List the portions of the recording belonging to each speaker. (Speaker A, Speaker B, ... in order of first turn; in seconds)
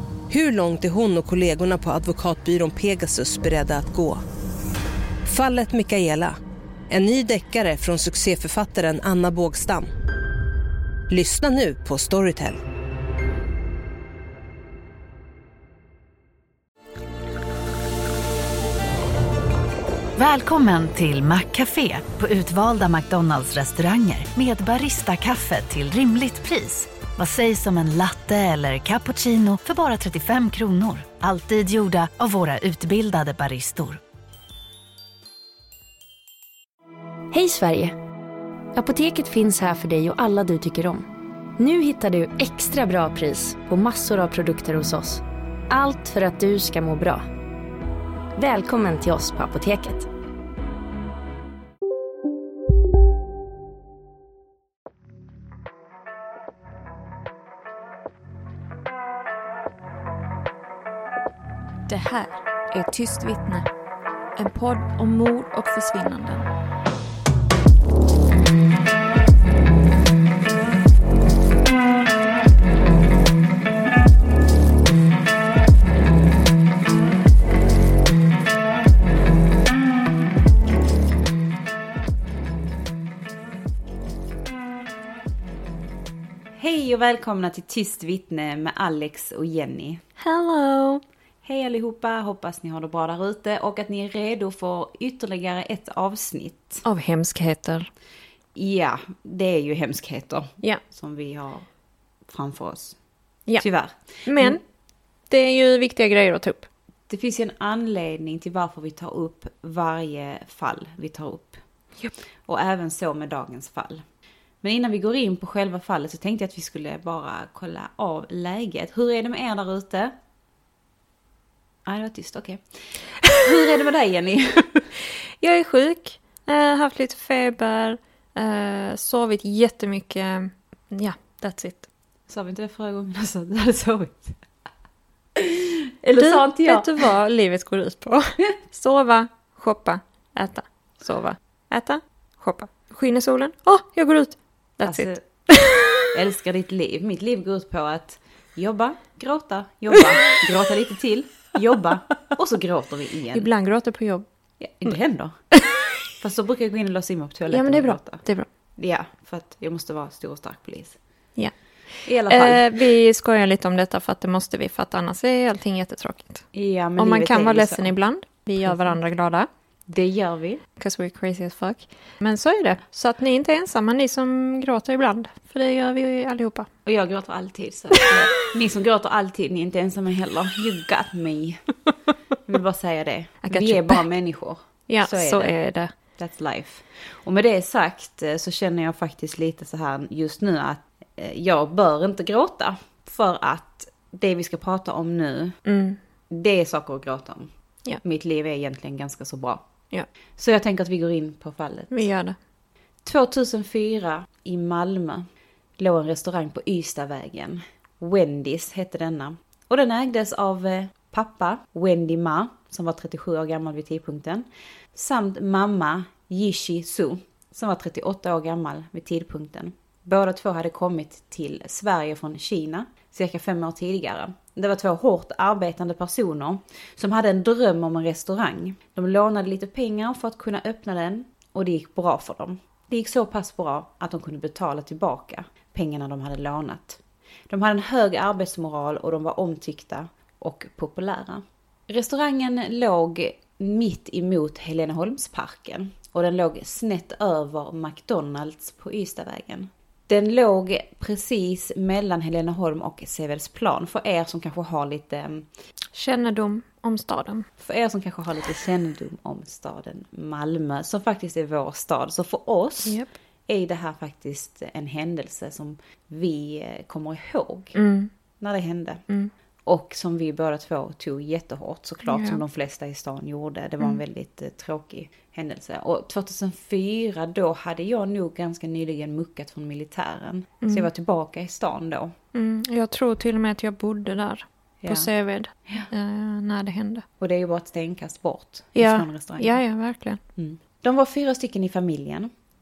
Speaker A: 0.3-4.2, 5.2-6.4, 6.9-9.9, 11.1-12.6
Speaker B: 20.2-34.0
Speaker C: 37.3-38.0, 38.7-47.3, 48.4-50.1
Speaker D: 61.9-63.7, 64.4-66.5, 90.2-91.0, 96.8-97.9, 104.2-104.6, 105.3-106.7, 125.0-131.9, 136.0-146.0, 153.3-154.2, 157.5-158.5, 161.4-166.4, 167.0-169.5, 170.8-176.7, 183.4-184.0, 184.9-185.9, 195.7-196.0, 201.9-202.3, 255.9-257.5, 262.8-263.1, 267.7-268.1, 272.1-272.4, 280.6-280.9, 282.3-287.0, 288.8-290.2
Speaker E: 86.6-90.0, 91.4-96.8, 98.5-101.7, 102.3-103.0, 103.5-104.6, 107.1-111.6, 112.5-114.0, 114.6-120.1, 121.8-124.9, 132.3-134.4, 135.3-137.0, 144.8-145.2, 146.1-153.5, 154.6-158.2, 158.8-161.0, 162.1-162.9, 166.5-167.9, 168.6-168.9, 169.9-170.6, 176.8-181.7, 182.4-185.5, 186.2-195.6, 196.3-197.5, 198.0-199.6, 200.4-202.1, 203.0-205.3, 205.8-255.4, 257.6-267.8, 268.4-269.0, 269.6-282.1, 284.8-285.1, 287.2-289.6, 290.4-292.3